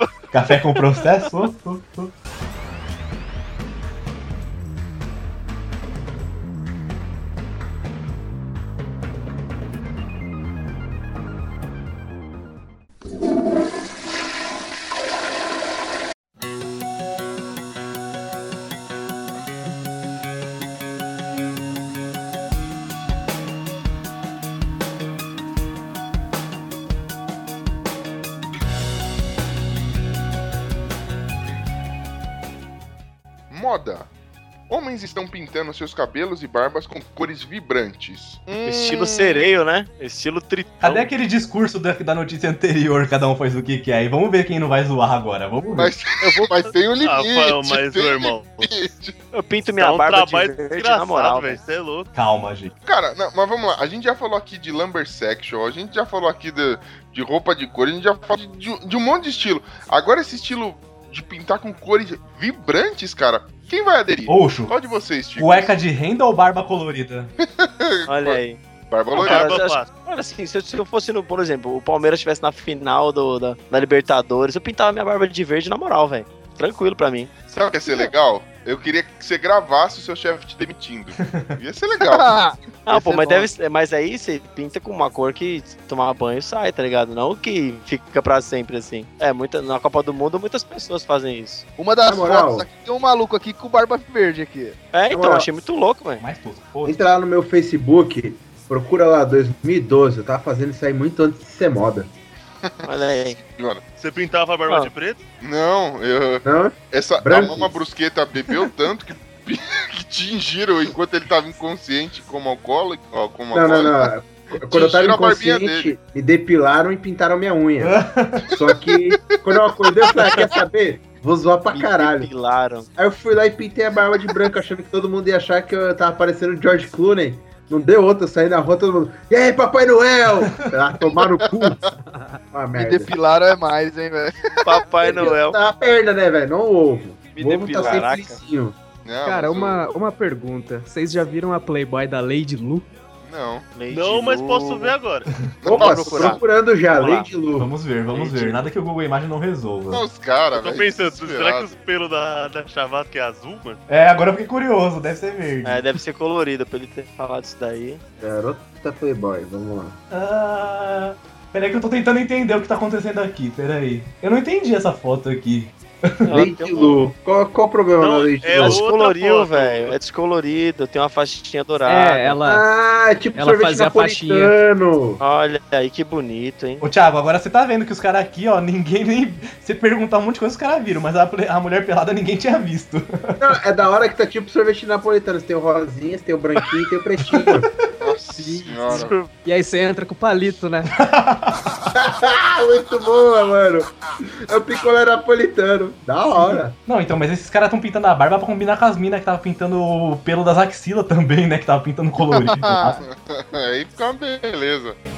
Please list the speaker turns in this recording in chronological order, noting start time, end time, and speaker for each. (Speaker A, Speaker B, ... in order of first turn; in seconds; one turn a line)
Speaker A: 0.3-2.1
Speaker B: 33.5-34.1
Speaker B: 34.7-39.4
Speaker C: 38.6-41.1
Speaker A: 40.8-45.9
Speaker B: 45.8-49.1
Speaker D: 47.0-48.7
Speaker C: 49.3-51.6
Speaker D: 49.8-52.1
Speaker A: 52.1-52.7
Speaker B: 52.8-65.7
Speaker A: 64.3-64.7
Speaker A: 65.4-67.3
Speaker B: 67.4-68.4
Speaker C: 68.1-68.6
Speaker B: 68.9-69.6
Speaker C: 69.1-77.3
Speaker D: 69.1-69.9
Speaker B: 77.5-82.3
Speaker E: 82.0-83.5
Speaker C: 82.8-91.7
Speaker E: 91.8-94.8
Speaker F: 92.0-92.7
Speaker C: 94.9-96.2
Speaker F: 95.1-95.5
Speaker A: 96.2-97.0
Speaker F: 96.8-102.1
Speaker C: 102.8-103.4
Speaker B: 103.4-103.8
Speaker D: 104.0-105.2
Speaker B: 105.4-114.1
Speaker F: 106.4-107.7
Speaker F: 113.5-122.3
Speaker B: 114.7-115.9
Speaker A: 117.8-118.5
Speaker C: 121.7-122.9
Speaker F: 123.0-131.8
Speaker F: 132.5-133.1
Speaker E: 132.7-134.8
Speaker C: 134.6-135.6
Speaker F: 135.0-138.8
Speaker E: 137.3-138.4
Speaker C: 137.8-138.3
Speaker B: 139.0-139.9
Speaker G: 139.2-142.9
Speaker B: 143.2-143.7
Speaker C: 143.7-144.9
Speaker D: 143.9-145.3
Speaker B: 145.6-145.9
Speaker C: 145.6-146.4
Speaker F: 145.7-147.7
Speaker C: 146.9-147.3
Speaker A: 147.6-150.0
Speaker C: 148.1-148.6
Speaker B: 149.9-151.7
Speaker D: 150.5-153.8
Speaker A: 153.9-155.8
Speaker C: 155.6-158.0
Speaker F: 158.2-160.0
Speaker A: 160.1-166.4
Speaker C: 166.2-167.0
Speaker F: 166.3-168.8
Speaker D: 168.0-169.9
Speaker C: 168.6-172.4
Speaker G: 171.8-172.7
Speaker F: 172.4-175.2
Speaker G: 173.3-174.5
Speaker C: 175.2-176.8
Speaker A: 176.8-183.4
Speaker F: 183.4-187.7
Speaker A: 187.3-187.6
Speaker B: 188.0-189.2
Speaker G: 189.0-190.9
Speaker A: 190.9-191.7
Speaker F: 191.9-196.8
Speaker A: 196.3-203.0
Speaker E: 202.2-203.0
Speaker B: 203.0-205.0